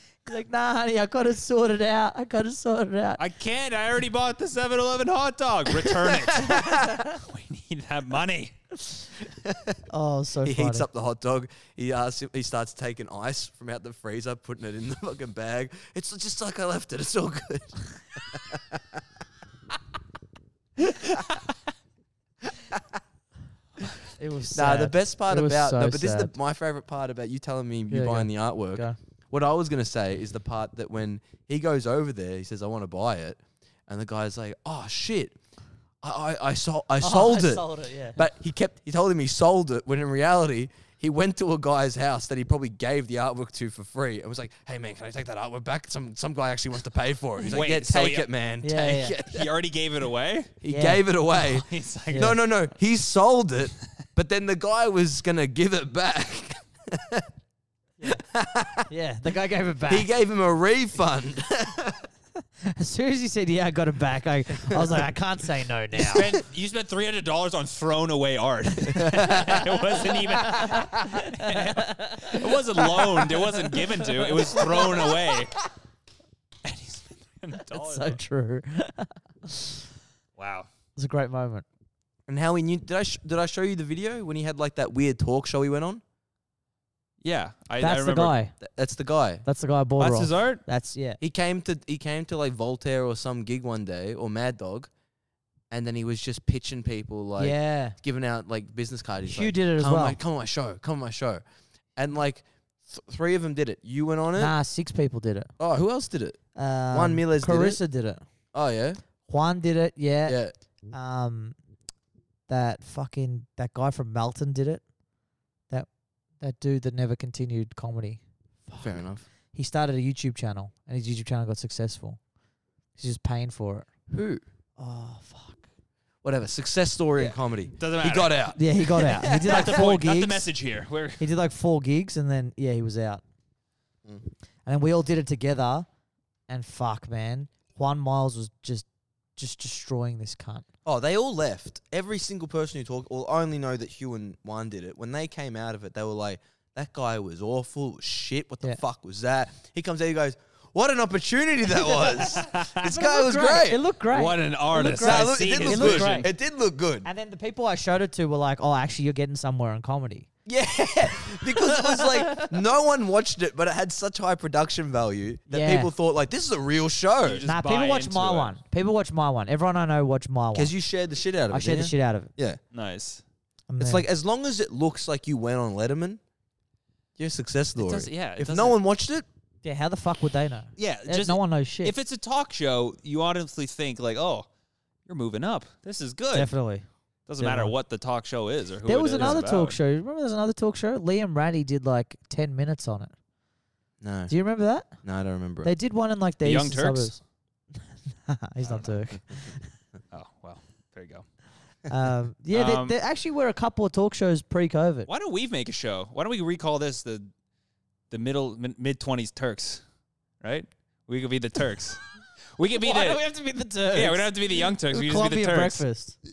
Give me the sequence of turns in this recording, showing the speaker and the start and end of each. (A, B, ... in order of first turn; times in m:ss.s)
0:00.2-0:03.2 A
0:03.2-0:08.6 B
0:09.4-0:09.7 C
0:09.9-0:10.8 A
0:10.4-0:19.0 C
0:24.2-0:26.3 A
0:24.5-0:35.4 C
0:27.9-0:29.0 A
0:36.0-0:49.5 C
0:37.0-0:38.2 A
0:47.4-0:48.3 B
0:48.6-0:49.2 A
0:49.2-0:50.5 B
0:50.6-0:57.3 C
0:50.7-0:51.0 A
0:51.3-0:52.4 B
0:58.0-0:58.9 C
0:58.9-1:00.1 A
0:59.9-1:02.0 C
1:02.6-1:06.3 A
1:06.0-1:15.6 B
1:08.9-1:09.4 C
1:09.2-1:09.6 A
1:10.4-1:15.2 A
1:16.6-1:18.2 B
1:17.7-1:19.8 A
1:20.4-1:20.7 B
1:21.0-1:21.6 A
1:22.3-1:26.0 C
1:27.2-1:28.3 B
1:27.8-1:28.5 A
1:28.6-1:29.4 C
1:29.4-1:31.2 A
1:30.0-1:30.6 B
1:31.2-1:34.9 C
1:35.7-1:41.4 C
1:37.4-1:38.0 A
1:39.2-1:40.2 A
1:42.0-1:44.5 C
1:44.4-1:45.5 A
1:45.6-1:46.4 C
1:46.5-1:48.2 A
1:46.9-1:47.8 C
1:48.5-1:49.0 C
1:49.3-1:50.4 A
1:50.2-1:50.5 C
1:50.9-1:51.6 A
1:52.5-1:54.8 A
1:56.4-2:02.2 A
1:58.8-1:59.2 C
2:03.0-2:03.9 A
2:04.1-2:04.4 C
2:04.8-2:05.6 A
2:06.2-2:09.8 C
2:07.2-2:11.2 B
2:08.5-2:10.5 A
2:11.2-2:13.2 A
2:14.6-2:15.9 A
2:16.5-2:20.6 A
2:20.8-2:33.8 C
2:31.7-2:36.3 A
2:32.3-2:32.9 B
2:34.1-2:36.3 B
2:35.0-2:37.1 C
2:37.0-2:40.3 A
2:40.4-2:47.4 C
2:41.6-2:42.5 A
2:45.5-2:45.9 A
2:47.2-2:48.6 B
2:47.5-2:50.7 A
2:50.5-2:52.6 C
2:51.5-2:52.3 A
2:52.7-2:53.2 B
2:53.7-2:54.0 A
2:53.8-2:56.2 C
2:57.2-2:59.2 C
2:57.8-2:58.8 B
2:59.6-3:01.9 A
3:00.8-3:04.5 B
3:05.1-3:06.5 B
3:06.3-3:06.8 A
3:07.3-3:09.8 B
3:07.4-3:07.7 A
3:08.8-3:13.1 A
3:14.0-3:14.3 C
3:14.3-3:14.9 A
3:15.0-3:15.7 C
3:15.6-3:17.2 A
3:16.4-3:17.2 B
3:18.1-3:19.7 A
3:18.6-3:18.9 B
3:20.1-3:21.2 B
3:21.9-3:25.1 A
3:22.5-3:23.0 B
3:25.1-3:27.3 B
3:28.1-3:29.8 B
3:30.4-3:33.2 B
3:32.8-3:36.2 A
3:33.9-3:35.8 B